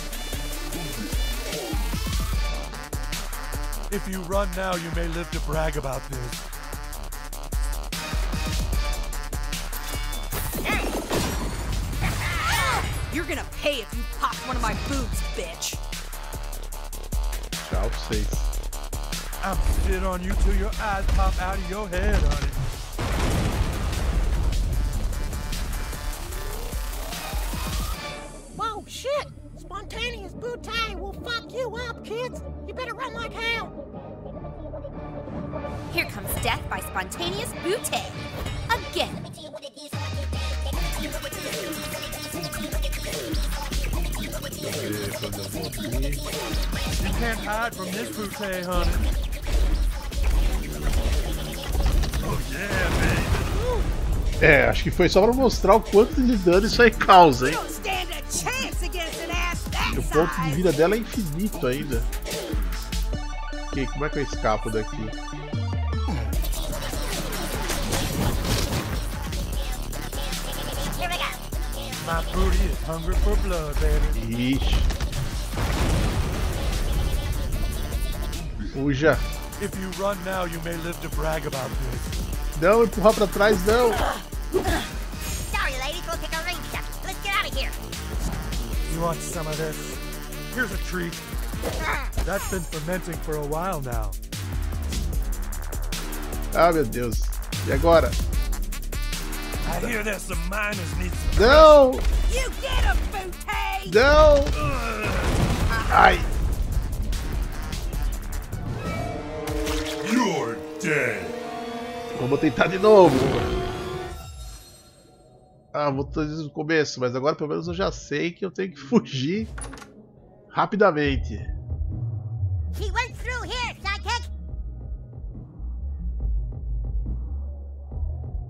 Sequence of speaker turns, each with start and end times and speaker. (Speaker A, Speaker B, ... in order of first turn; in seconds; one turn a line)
Speaker A: 3.9-6.4
Speaker B: 10.7-10.9
Speaker C: 13.1-15.8
Speaker D: 17.6-18.5
Speaker A: 19.4-22.6
Speaker E: 28.6-33.8
Speaker F: 35.9-39.3
Speaker D: 44.6-46.2
Speaker A: 47.0-49.0
Speaker A: 52.2-53.6
Speaker D: 54.4-57.6
Speaker C: 57.3-60.7
Speaker D: 59.9-62.1
Speaker D: 63.7-65.2
Speaker B: 70.9-71.4
Speaker A: 72.0-74.2
Speaker D: 74.1-74.9
Speaker D: 78.7-79.2
Speaker A: 79.6-82.2
Speaker D: 82.5-84.0
Speaker B: 85.5-87.8
Speaker A: 88.9-90.0
Speaker A: 90.5-91.2
Speaker A: 92.2-94.2
Speaker D: 96.5-98.2
Speaker A: 99.6-101.8
Speaker D: 99.7-100.0
Speaker D: 101.3-102.1
Speaker C: 102.3-104.0
Speaker D: 103.9-104.5
Speaker A: 104.5-105.4
Speaker D: 105.9-106.3
Speaker A: 110.0-111.4
Speaker D: 112.1-113.5
Speaker D: 115.7-119.5
Speaker D: 120.5-121.5
Speaker B: 122.7-124.3